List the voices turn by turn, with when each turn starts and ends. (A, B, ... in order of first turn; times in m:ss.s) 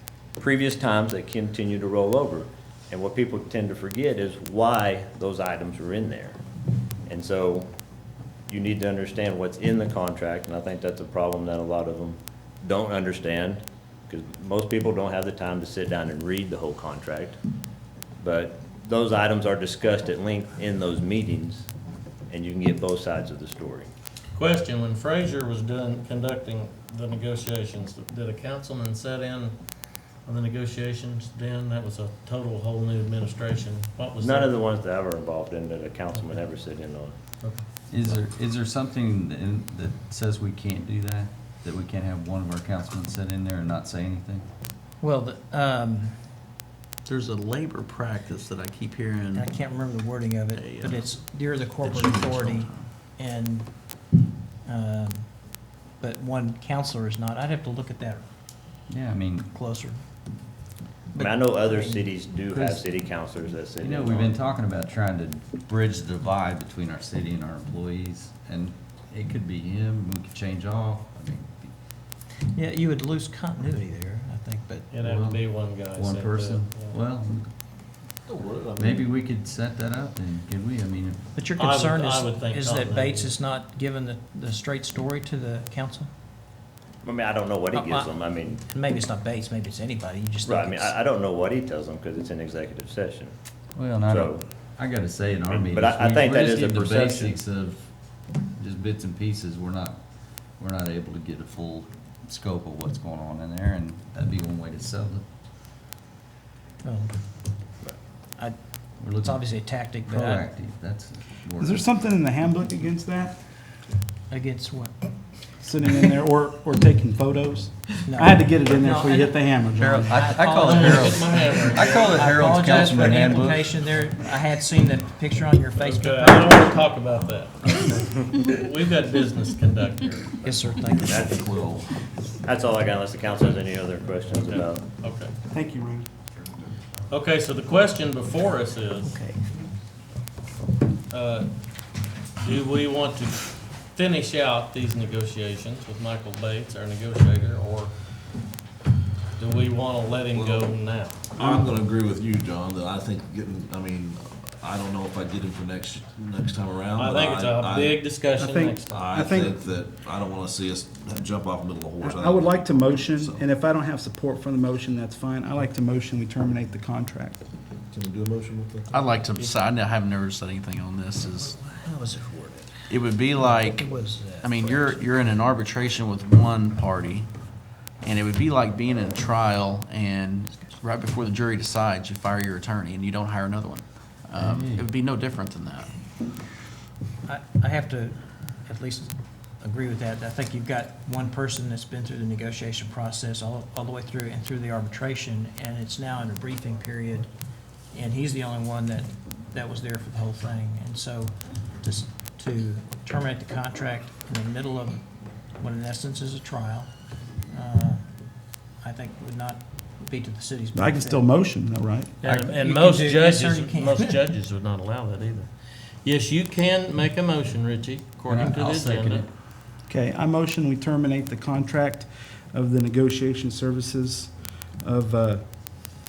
0:00.4-0:06.4 A
0:07.1-0:07.7 A
0:08.5-0:17.4 A
0:18.2-0:21.7 A
0:22.3-0:23.9 A
0:24.3-0:34.5 B
0:34.2-0:37.1 A
0:37.9-0:44.4 C
0:45.0-0:46.3 D
0:47.0-0:49.5 E
0:49.3-0:58.2 D
0:50.5-0:51.2 E
0:51.8-0:52.8 E
0:58.9-0:59.5 C
0:59.5-1:00.0 D
1:01.1-1:02.1 D
1:01.2-1:04.4 A
1:02.5-1:02.9 C
1:03.8-1:11.7 C
1:12.4-1:14.9 D
1:14.9-1:17.0 B
1:15.0-1:17.5 C
1:18.3-1:19.1 F
1:18.8-1:21.2 C
1:21.3-1:26.1 D
1:21.6-1:23.3 B
1:27.0-1:28.6 A
1:27.7-1:30.9 D
1:30.4-1:33.3 A
1:33.7-1:37.9 C
1:34.0-1:34.4 A
1:35.5-1:37.4 A
1:38.5-1:45.2 C
1:46.8-1:47.2 D
1:48.4-1:50.5 D
1:49.0-1:49.4 C
1:50.0-1:51.8 C
1:51.6-1:53.4 G
1:54.3-1:55.1 D
1:55.6-2:00.1 G
1:58.0-2:06.7 D
1:59.8-2:03.7 C
2:00.6-2:02.2 B
2:05.8-2:10.5 B
2:10.4-2:11.4 D
2:10.8-2:12.0 F
2:11.0-2:11.5 A
2:12.4-2:14.8 A
2:14.4-2:15.3 B
2:15.5-2:16.1 G
2:17.1-2:19.2 B
2:19.1-2:19.4 D
2:21.1-2:21.5 B
2:22.4-2:27.9 B
2:29.4-2:31.2 B
2:30.3-2:30.7 F
2:31.3-2:38.0 F
2:31.4-2:31.7 G
2:36.9-2:39.0 B
2:38.4-2:39.6 G
2:38.9-2:43.4 F
2:42.0-2:47.4 G
2:47.9-2:49.1 F
2:48.9-2:51.6 E
2:51.3-2:55.1 D
2:52.9-2:57.3 E
2:58.0-3:05.9 E
3:04.4-3:04.8 C
3:07.2-3:17.3 D
3:17.9-3:28.0 D
3:28.8-3:31.3 D
3:30.7-3:32.1 G
3:32.2-3:39.3 B
3:32.2-3:32.5 C
3:32.6-3:34.1 D
3:38.3-3:39.3 C
3:39.9-3:45.4 G